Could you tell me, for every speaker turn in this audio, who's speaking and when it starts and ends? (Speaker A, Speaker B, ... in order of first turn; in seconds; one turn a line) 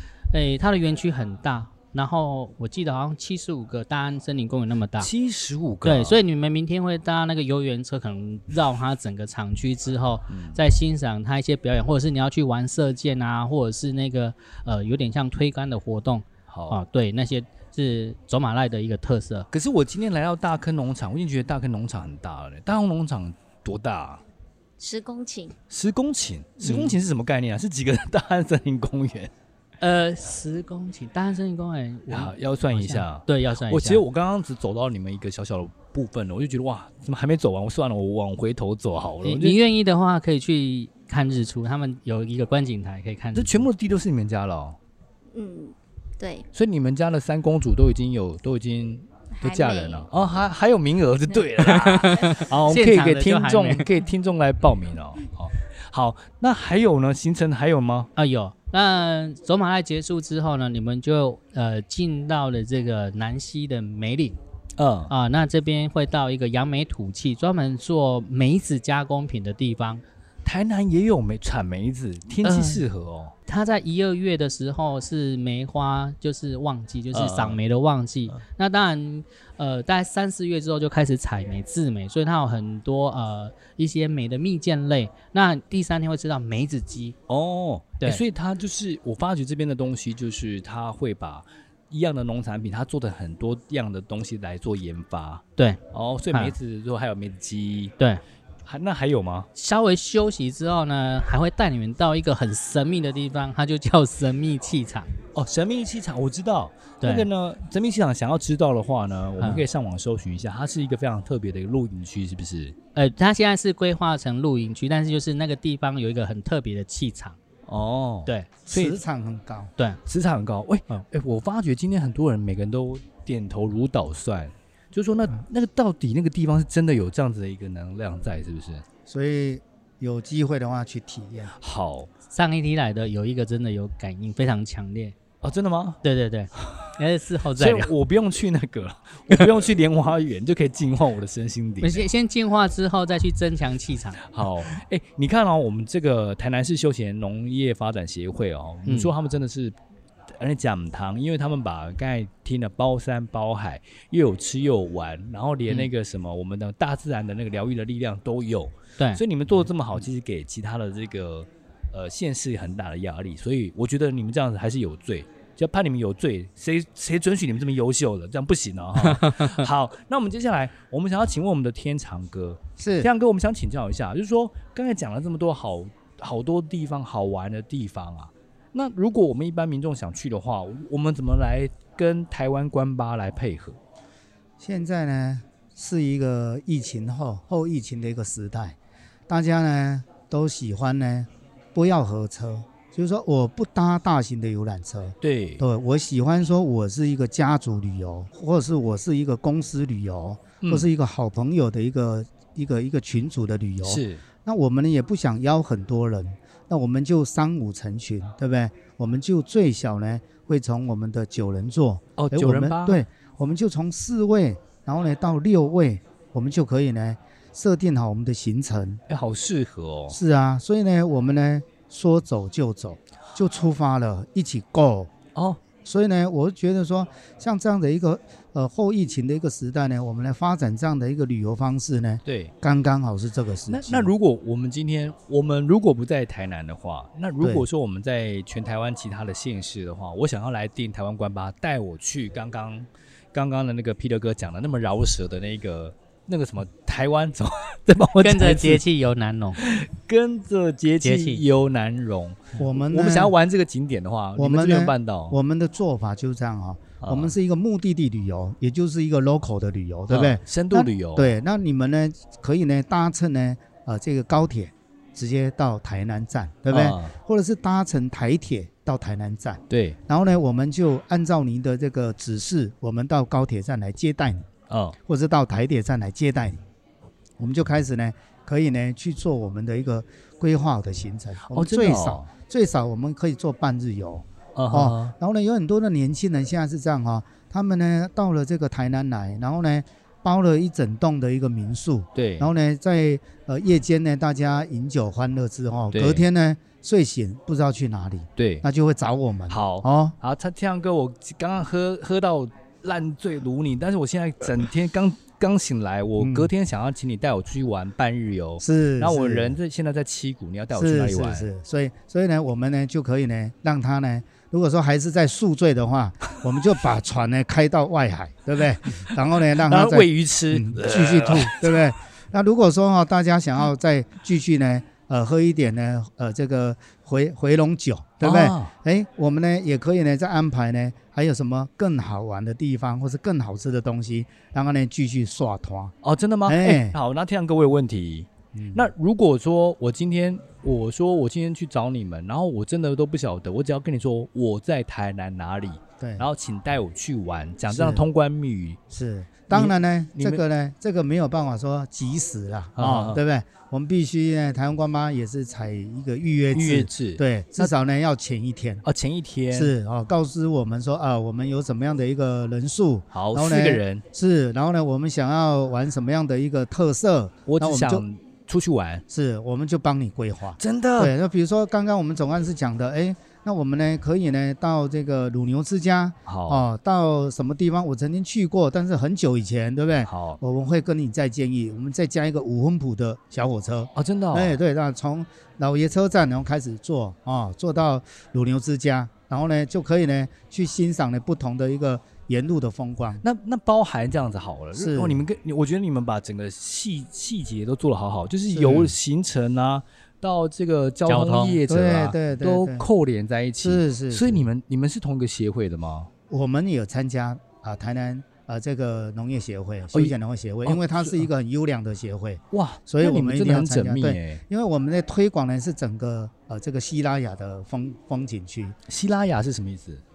Speaker A: 0.3-5.1
Speaker B: 5.0-6.2
Speaker A: 5.8-19.5
Speaker B: 10.3-10.6
Speaker B: 16.5-16.8
Speaker B: 19.5-24.2
Speaker C: 24.8-25.5
Speaker B: 25.7-29.3
Speaker A: 26.6-27.0
Speaker A: 29.8-34.0
Speaker B: 32.1-39.6
Speaker A: 39.2-43.7
Speaker B: 43.3-44.8
Speaker C: 45.3-46.5
Speaker B: 46.5-58.1
Speaker C: 49.4-50.1
Speaker A: 51.6-53.9
Speaker A: 58.1-64.4
Speaker B: 64.8-65.1
Speaker A: 65.1-70.0
Speaker B: 70.4-73.3
Speaker A: 72.4-72.8
Speaker A: 73.5-87.2
Speaker B: 77.1-77.6
Speaker B: 87.3-97.9
Speaker B: 98.6-99.5
Speaker A: 99.5-105.1
Speaker B: 105.3-112.7
Speaker A: 107.0-107.3
Speaker A: 109.4-109.6
Speaker A: 112.9-117.4
Speaker B: 117.7-119.0
Speaker D: 118.7-119.7
Speaker B: 120.0-128.8
Speaker D: 129.1-131.5
Speaker B: 131.6-132.1
Speaker A: 132.3-135.2
Speaker B: 135.4-136.0
Speaker A: 136.0-137.9
Speaker B: 136.6-136.9
Speaker B: 137.6-142.1
Speaker A: 141.8-144.3
Speaker B: 144.2-149.7
Speaker A: 148.8-149.1
Speaker B: 150.4-183.8
Speaker A: 169.0-169.7
Speaker D: 172.8-173.1
Speaker D: 184.6-188.8
Speaker D: 189.3-219.0
Speaker B: 195.2-195.6
Speaker B: 200.6-200.9
Speaker B: 203.8-204.2
Speaker B: 212.2-213.0
Speaker B: 219.1-220.2
Speaker D: 220.1-225.1
Speaker B: 225.3-225.6
Speaker D: 225.8-234.1
Speaker B: 232.2-232.5
Speaker B: 233.7-248.8
Speaker D: 237.4-237.7
Speaker A: 248.2-249.6
Speaker B: 249.6-255.3
Speaker A: 251.0-251.4
Speaker D: 252.6-253.3
Speaker D: 254.4-274.5
Speaker B: 257.0-257.3
Speaker B: 260.1-261.3
Speaker B: 266.7-267.1
Speaker B: 269.7-270.0
Speaker B: 274.7-275.0
Speaker D: 275.0-276.6
Speaker D: 277.4-300.1
Speaker B: 281.5-282.3
Speaker B: 284.6-285.1
Speaker B: 292.1-292.5
Speaker B: 295.9-296.2
Speaker B: 298.4-298.6
Speaker B: 299.5-311.5
Speaker D: 306.2-306.5
Speaker D: 308.6-309.6
Speaker D: 310.7-335.9
Speaker B: 319.0-321.9
Speaker B: 328.2-328.7
Speaker B: 336.0-348.8
Speaker D: 336.4-337.0
Speaker D: 338.5-338.9
Speaker D: 346.0-346.3
Speaker D: 347.7-348.1
Speaker D: 348.9-358.8
Speaker B: 349.5-350.4
Speaker B: 352.8-353.2
Speaker B: 356.5-357.7
Speaker B: 358.8-359.7
Speaker D: 359.5-368.0
Speaker B: 363.1-364.0
Speaker B: 367.4-369.0
Speaker D: 369.1-393.2
Speaker B: 370.6-371.1
Speaker B: 376.2-376.6
Speaker B: 380.1-380.4
Speaker B: 383.9-384.6
Speaker B: 393.2-406.1
Speaker D: 394.7-395.2
Speaker D: 398.5-398.9
Speaker A: 401.1-401.6
Speaker D: 401.7-402.8
Speaker D: 403.6-404.5
Speaker D: 406.3-418.8
Speaker B: 409.9-411.3
Speaker B: 412.5-414.4
Speaker B: 418.9-420.0